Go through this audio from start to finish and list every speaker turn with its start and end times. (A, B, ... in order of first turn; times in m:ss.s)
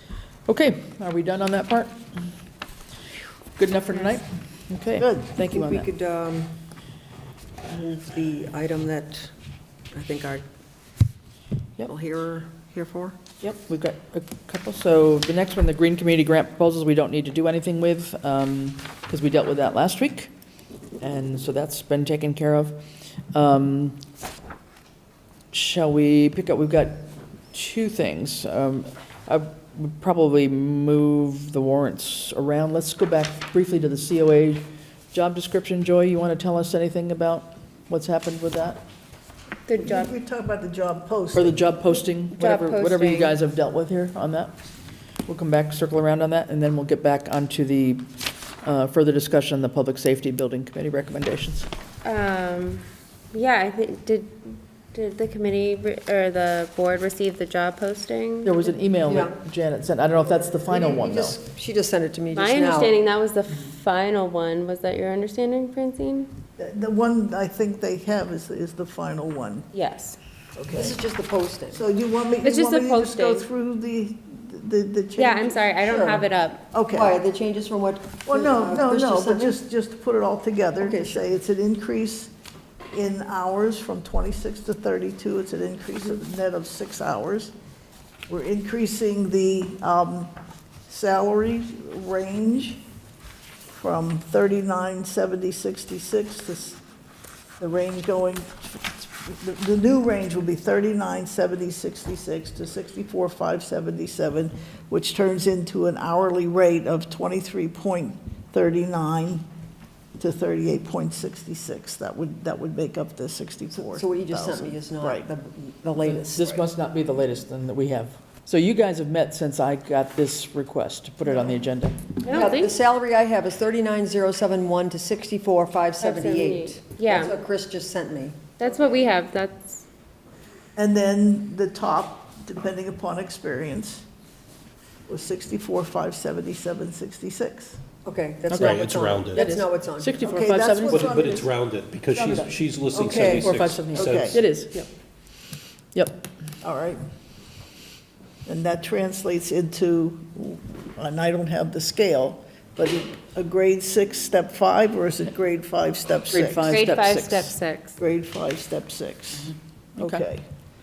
0:00.5-0:02.0 A
0:03.6-0:05.9 A
0:05.0-0:05.4 B
0:05.5-0:06.5 C
0:07.7-0:09.3 C
0:09.9-0:10.4 C
0:11.8-0:13.2 C
0:13.4-0:20.3 A
0:21.0-0:22.8 A
0:23.3-0:24.0 A
0:25.5-0:38.8 A
0:39.7-0:40.1 D
0:39.8-0:41.6 B
0:41.3-0:44.6 A
0:42.3-0:43.4 D
0:45.3-0:48.0 A
0:48.6-0:51.7 A
0:52.0-0:58.7 D
0:58.4-1:01.4 A
0:59.0-0:59.3 C
1:00.7-1:03.0 C
1:02.3-1:06.3 D
1:06.6-1:09.7 B
1:09.7-1:10.2 D
1:10.6-1:11.0 B
1:10.7-1:11.8 C
1:11.7-1:15.7 B
1:12.4-1:13.5 D
1:15.2-1:16.7 D
1:15.8-1:16.3 C
1:16.7-1:17.2 B
1:16.9-1:19.6 C
1:18.2-1:22.3 B
1:20.8-1:21.3 C
1:22.9-1:27.5 B
1:28.3-1:30.3 B
1:30.9-1:32.8 B
1:33.7-1:36.8 B
1:37.6-1:49.4 B
1:50.2-1:55.3 B
1:53.7-1:56.6 C
1:56.0-2:02.2 A
2:02.2-2:02.7 D
2:02.2-2:09.0 C
2:06.0-2:07.4 D
2:08.6-2:09.8 D
2:10.8-2:14.0 B
2:15.1-2:17.8 B
2:18.0-2:20.4 C
2:18.5-2:21.2 A
2:18.6-2:19.5 E
2:20.2-2:21.5 B
2:20.9-2:24.5 E
2:22.1-2:22.5 A
2:22.9-2:24.8 C
2:23.2-2:24.8 A
2:24.0-2:24.4 B
2:25.9-2:26.2 A
2:26.6-2:27.0 B
2:28.4-2:36.8 B
2:36.3-2:37.6 A
2:36.7-2:38.0 D
2:38.0-2:40.5 B
2:40.0-2:40.2 A